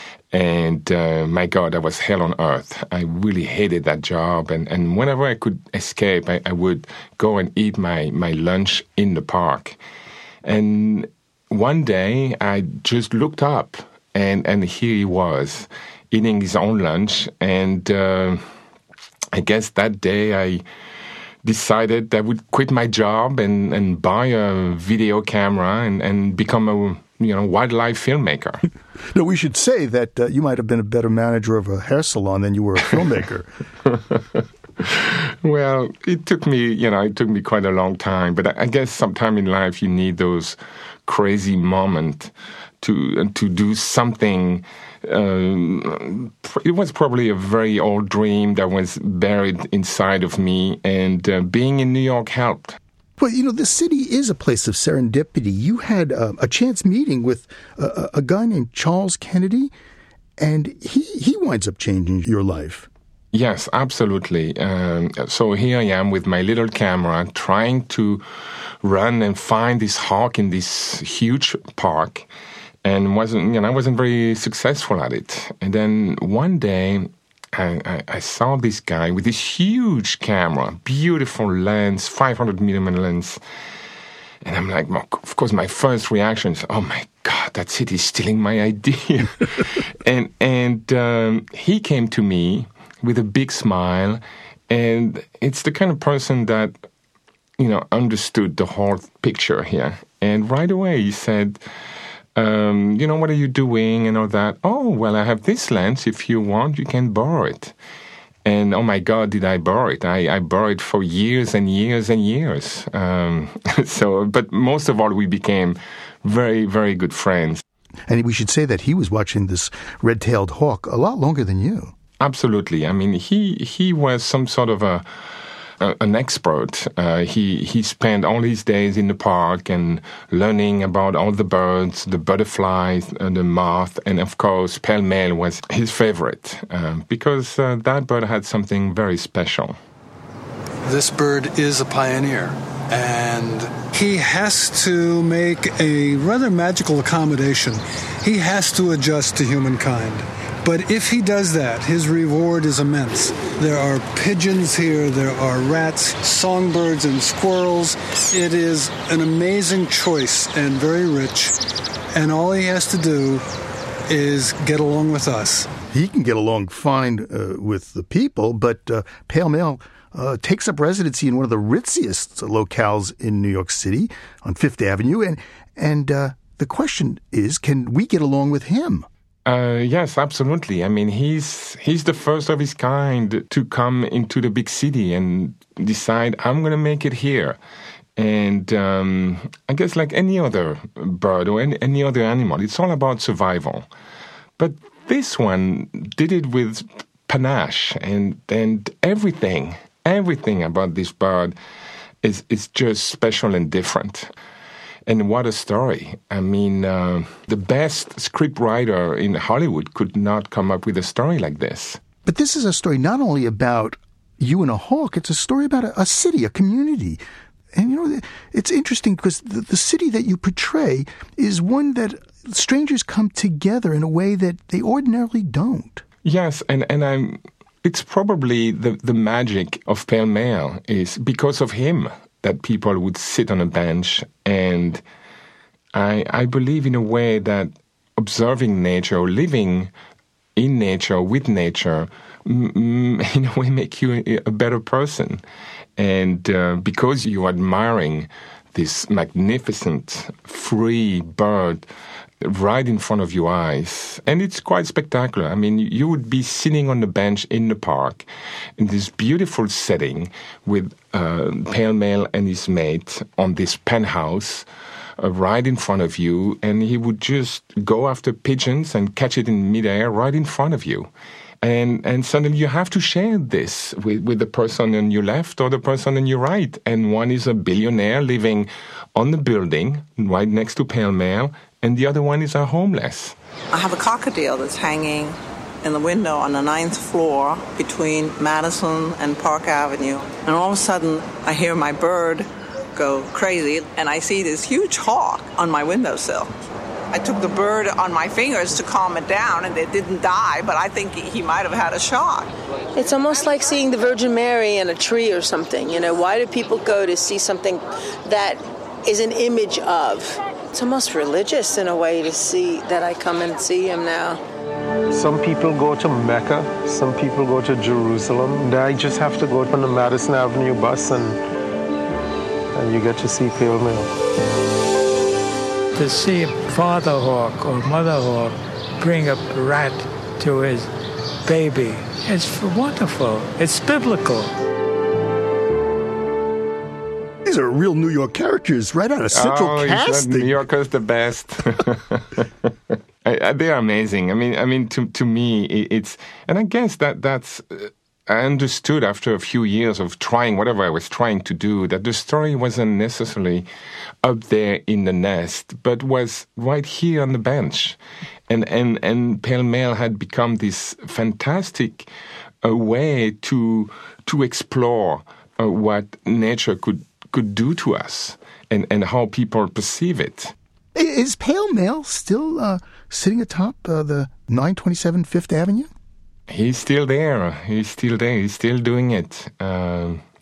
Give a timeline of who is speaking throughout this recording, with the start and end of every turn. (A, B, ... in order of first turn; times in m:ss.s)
0:00.3-0:09.8 A
0:10.4-0:18.4 A
0:19.3-0:20.6 A
0:21.4-0:28.6 A
0:29.1-0:33.5 B
0:34.1-0:52.8 A
0:53.2-0:59.7 B
1:00.4-1:02.9 B
1:03.3-1:08.2 A
1:08.8-1:12.3 A
1:12.8-1:23.4 A
1:24.4-1:36.8 A
1:37.6-1:41.6 A
1:42.4-1:47.8 A
1:48.4-1:57.6 A
1:58.1-2:01.9 B
2:02.2-2:05.3 A
2:05.8-2:19.8 A
2:20.8-2:41.5 C
2:42.1-2:43.4 C
2:44.1-2:45.7 C
2:45.9-2:59.1 B
2:59.4-3:07.6 A
3:08.2-3:13.9 A
3:14.6-3:21.6 A
3:22.2-3:24.3 A
3:25.1-3:32.0 A
3:32.2-3:37.2 B
3:37.7-3:46.0 B
3:46.2-3:55.0 A
3:55.9-3:59.9 A
4:00.6-4:05.4 A
4:06.0-4:11.9 A
4:12.4-4:24.7 A
4:25.2-4:31.1 A
4:31.6-4:43.3 A
4:43.7-4:56.5 D
4:57.1-5:02.5 D
5:02.9-5:14.4 E
5:15.2-5:21.4 C
5:15.3-5:21.3 F
5:22.8-5:24.0 F
5:25.9-5:30.9 G
5:31.4-5:34.5 G
5:37.4-5:40.6 B
5:39.3-5:42.7 A
5:43.2-5:53.6 A
5:54.2-6:02.1 A
6:02.6-6:10.5 A
6:10.9-6:15.9 B
6:16.5-6:20.2 A